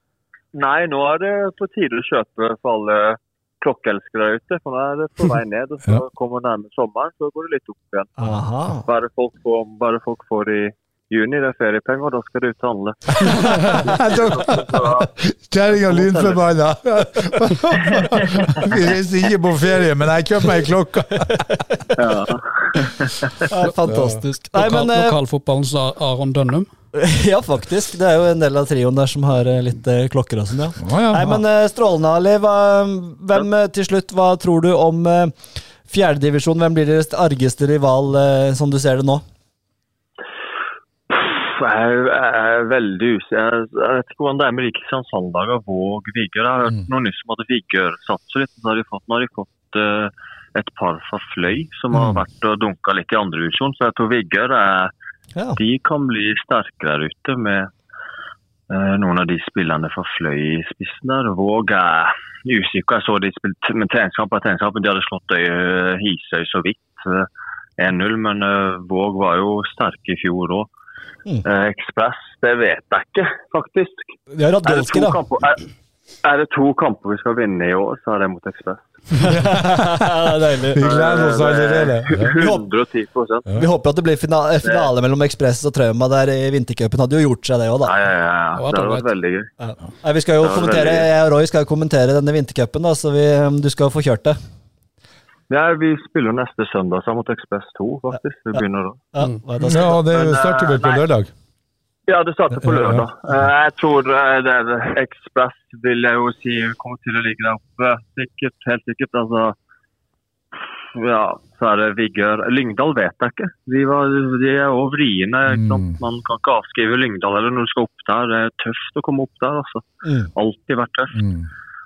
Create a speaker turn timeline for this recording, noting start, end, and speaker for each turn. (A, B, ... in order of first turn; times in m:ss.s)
0:00.5-0:08.2 A
0:08.2-0:08.9 B
0:08.8-0:15.1 A
0:13.2-0:21.6 C
0:15.7-0:16.4 A
0:17.8-0:18.7 A
0:22.0-0:23.3 A
0:23.5-0:25.2 B
0:23.9-0:24.2 C
0:24.5-0:26.7 D
0:26.9-0:35.4 B
0:30.8-0:31.4 C
0:35.9-0:39.2 B
0:41.1-0:54.9 A
0:51.9-0:52.2 C
0:55.6-0:57.7 A
0:58.7-1:10.7 A
1:11.4-1:15.6 A
1:14.3-1:15.2 B
1:16.2-1:19.3 A
1:19.2-1:20.8 B
1:19.2-1:22.3 C
1:20.8-1:23.5 A
1:22.3-1:22.6 B
1:23.6-1:27.9 B
1:24.6-1:24.9 A
1:27.8-1:29.5 A
1:28.6-1:29.1 D
1:29.6-1:34.4 B
1:30.4-1:31.1 A
1:35.5-1:39.0 A
1:39.1-1:40.0 B
1:39.6-1:41.3 C
1:39.9-1:41.0 A
1:42.1-1:49.6 A
1:42.6-1:43.1 C
1:50.9-2:01.2 A
1:55.5-1:56.0 C
2:00.0-2:00.3 B
2:01.1-2:01.5 C